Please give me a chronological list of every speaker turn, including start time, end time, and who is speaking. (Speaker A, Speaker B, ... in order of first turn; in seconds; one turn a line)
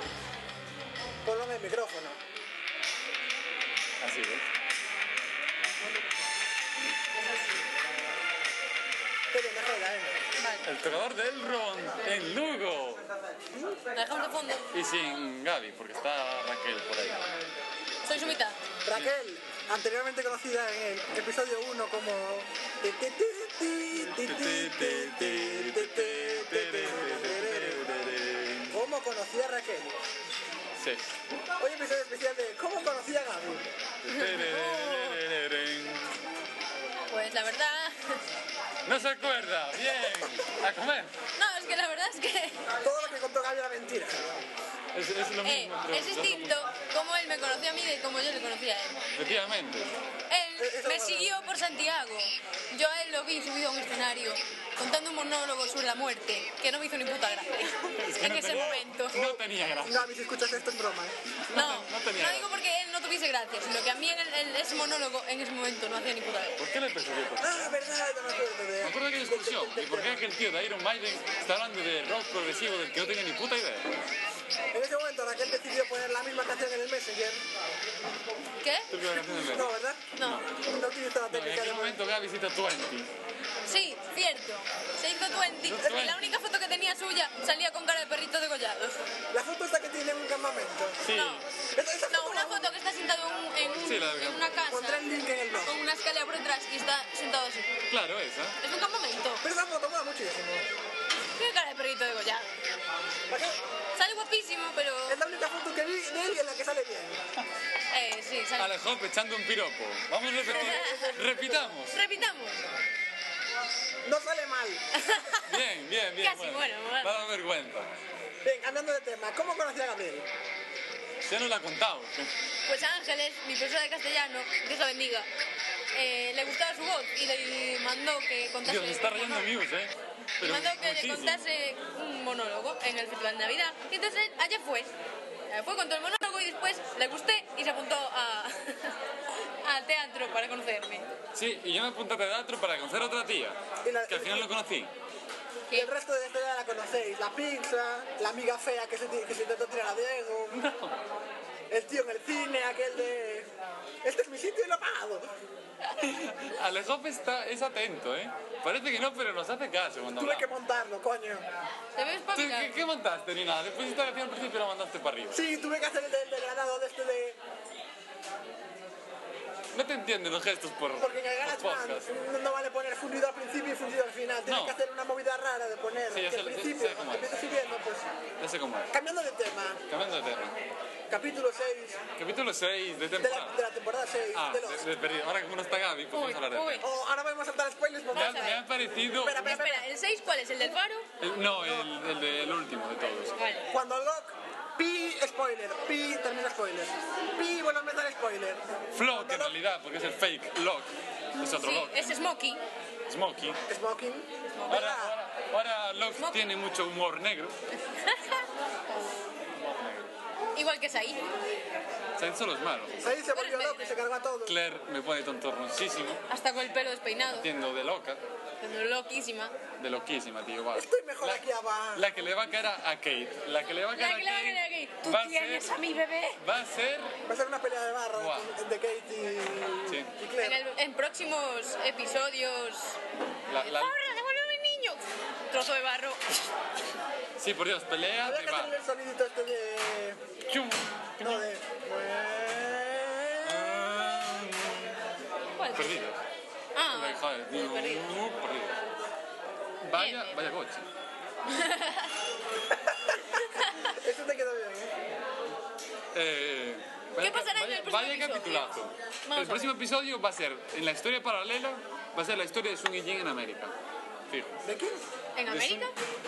Speaker A: 1.2-2.2
Speaker B: 4.0-4.4
Speaker A: 9.3-10.2
Speaker C: 10.4-10.6
Speaker B: 10.6-13.0
Speaker A: 13.5-13.8
Speaker C: 13.9-14.7
Speaker B: 14.7-17.3
Speaker C: 18.1-18.6
Speaker B: 18.1-18.4
Speaker A: 18.9-27.9
Speaker B: 24.0-28.8
Speaker A: 28.7-29.9
Speaker B: 30.8-31.0
Speaker A: 31.6-33.7
Speaker B: 34.0-36.2
Speaker C: 34.1-35.2
Speaker C: 37.1-38.2
Speaker B: 38.8-41.1
Speaker C: 41.4-42.6
Speaker A: 42.8-44.2
Speaker B: 44.9-46.6
Speaker C: 45.4-49.0
Speaker B: 49.1-49.9
Speaker C: 50.3-59.1
Speaker A: 50.6-51.3
Speaker B: 57.9-60.1
Speaker A: 58.3-61.1
Speaker B: 61.5-62.6
Speaker C: 61.5-66.6
Speaker B: 66.6-67.7
Speaker A: 67.4-70.2
Speaker B: 68.8-73.9
Speaker A: 74.7-77.4
Speaker C: 78.6-78.9
Speaker B: 78.9-80.5
Speaker A: 79.4-82.0
Speaker C: 80.2-80.4
Speaker B: 81.3-83.1
Speaker C: 83.6-89.0
Speaker B: 85.6-86.3
Speaker A: 89.3-91.0
Speaker B: 91.0-91.4
Speaker C: 91.0-91.4
Speaker A: 91.7-92.7
Speaker C: 92.1-97.7
Speaker B: 93.8-94.4
Speaker A: 94.7-95.7
Speaker B: 97.9-98.6
Speaker C: 98.6-99.4
Speaker A: 99.4-100.6
Speaker C: 101.3-102.5
Speaker A: 103.3-103.6
Speaker C: 104.0-105.2
Speaker A: 105.1-107.2
Speaker C: 107.9-108.7
Speaker B: 108.6-112.0
Speaker C: 110.5-111.1
Speaker A: 110.6-111.7
Speaker C: 111.8-112.7
Speaker A: 114.0-114.8
Speaker C: 114.9-115.5
Speaker B: 115.4-117.9
Speaker C: 116.2-117.2
Speaker A: 118.4-120.3
Speaker B: 121.2-122.3
Speaker C: 122.7-125.3
Speaker C: 125.9-129.5
Speaker B: 128.6-131.4
Speaker C: 130.4-134.9
Speaker C: 135.5-138.9
Speaker C: 139.6-141.1
Speaker B: 141.3-144.9
Speaker A: 143.8-144.5
Speaker A: 145.7-150.6
Speaker B: 150.5-151.0
Speaker A: 151.7-153.5
Speaker A: 154.0-155.3
Speaker B: 155.8-160.5
Speaker A: 160.2-161.4
Speaker C: 161.9-162.8
Speaker B: 162.3-165.4
Speaker A: 165.3-167.4
Speaker B: 169.7-172.0
Speaker A: 171.0-178.1
Speaker B: 174.4-174.8
Speaker B: 176.1-177.4
Speaker B: 178.4-178.9
Speaker A: 178.9-179.8
Speaker B: 179.9-180.5
Speaker A: 181.1-182.0
Speaker B: 182.2-183.5
Speaker A: 183.2-184.8
Speaker B: 184.3-186.9
Speaker C: 186.1-186.8
Speaker A: 186.8-188.6
Speaker C: 188.1-188.6
Speaker B: 188.2-189.5
Speaker A: 189.2-189.9
Speaker C: 189.3-191.1
Speaker B: 191.2-193.3
Speaker A: 191.6-191.9
Speaker C: 193.4-193.6
Speaker A: 193.7-199.5
Speaker B: 198.9-202.3
Speaker C: 201.4-202.6
Speaker B: 203.1-203.6
Speaker A: 203.7-205.2
Speaker C: 204.6-204.8
Speaker B: 204.7-207.5
Speaker C: 206.1-206.4
Speaker C: 207.9-208.4
Speaker B: 209.5-210.1
Speaker C: 210.5-211.2
Speaker B: 212.2-213.1
Speaker A: 213.0-214.6
Speaker C: 213.3-214.0
Speaker B: 214.4-216.2
Speaker C: 216.3-217.5
Speaker B: 217.3-218.2
Speaker C: 218.6-219.5
Speaker B: 219.8-227.2
Speaker A: 220.7-222.1
Speaker C: 223.9-226.4
Speaker A: 227.3-230.6
Speaker B: 228.1-228.5
Speaker C: 230.4-233.0
Speaker B: 233.5-234.0
Speaker C: 233.6-236.5
Speaker B: 237.4-238.7
Speaker A: 238.2-240.2
Speaker B: 240.5-241.4
Speaker A: 241.2-243.9
Speaker B: 243.4-244.9
Speaker C: 245.6-246.0
Speaker B: 245.7-246.2
Speaker C: 246.7-248.1
Speaker B: 246.9-248.8
Speaker B: 249.8-250.9
Speaker C: 249.9-250.3
Speaker C: 251.5-252.1
Speaker A: 252.7-254.9
Speaker C: 253.5-253.9
Speaker B: 256.1-263.7
Speaker C: 257.2-258.7
Speaker C: 259.2-259.7
Speaker B: 264.3-264.6
Speaker A: 264.6-265.1
Speaker C: 265.3-265.9
Speaker B: 265.4-265.9